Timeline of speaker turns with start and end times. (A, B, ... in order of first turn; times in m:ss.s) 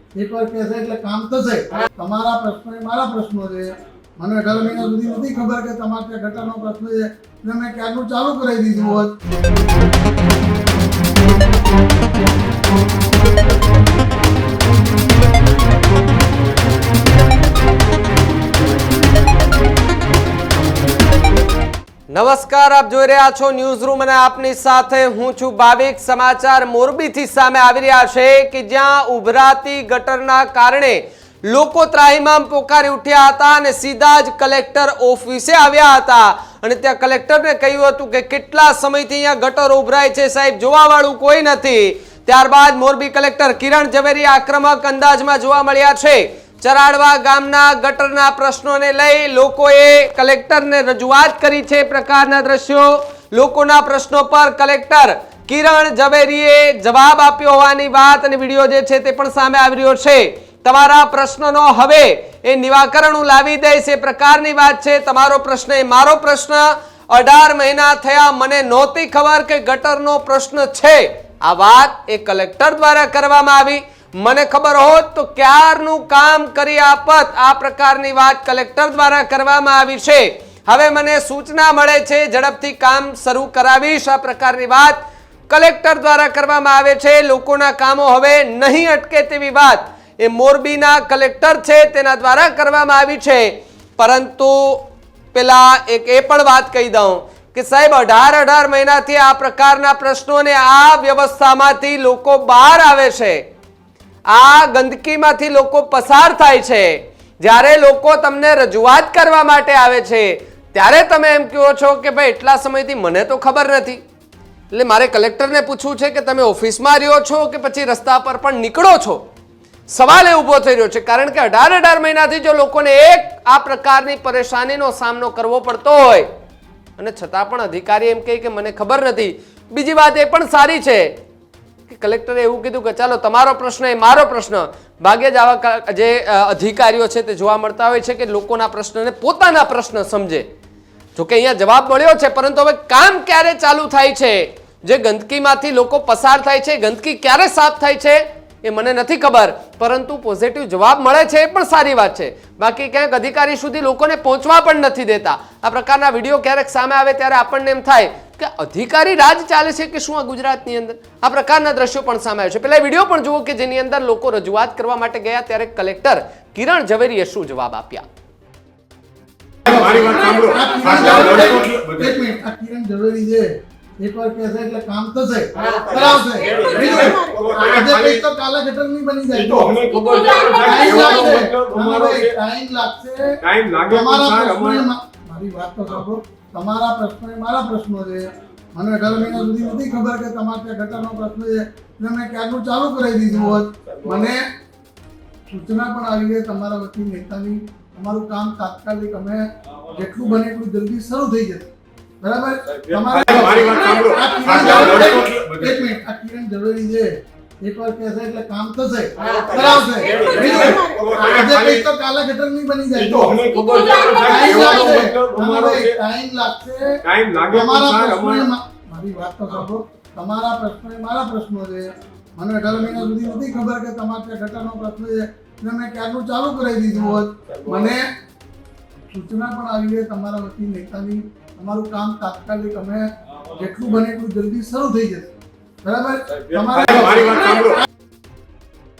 0:00.2-0:09.1 A
0:22.1-1:43.4 B
1:44.3-1:54.0 B
1:54.7-1:59.3 B
1:59.9-2:06.3 B
2:07.0-2:11.2 B
2:11.9-2:20.5 B
2:21.2-2:48.0 B
2:49.7-2:52.2 C
2:49.7-2:53.5 A
2:54.0-2:59.8 A
2:56.6-2:58.2 C
2:59.4-3:02.3 C
3:00.6-3:03.4 A
3:03.4-3:04.8 C
3:03.9-3:14.4 A
3:15.5-3:21.7 A
3:22.2-3:27.1 A
3:23.1-3:25.8 C
3:27.6-3:33.5 A
3:30.2-3:31.8 C
3:33.0-3:35.9 C
3:34.2-3:37.0 A
3:37.0-3:38.5 C
3:37.5-3:48.1 A
3:49.1-3:55.3 A
3:55.8-3:57.8 A
3:56.8-3:57.6 C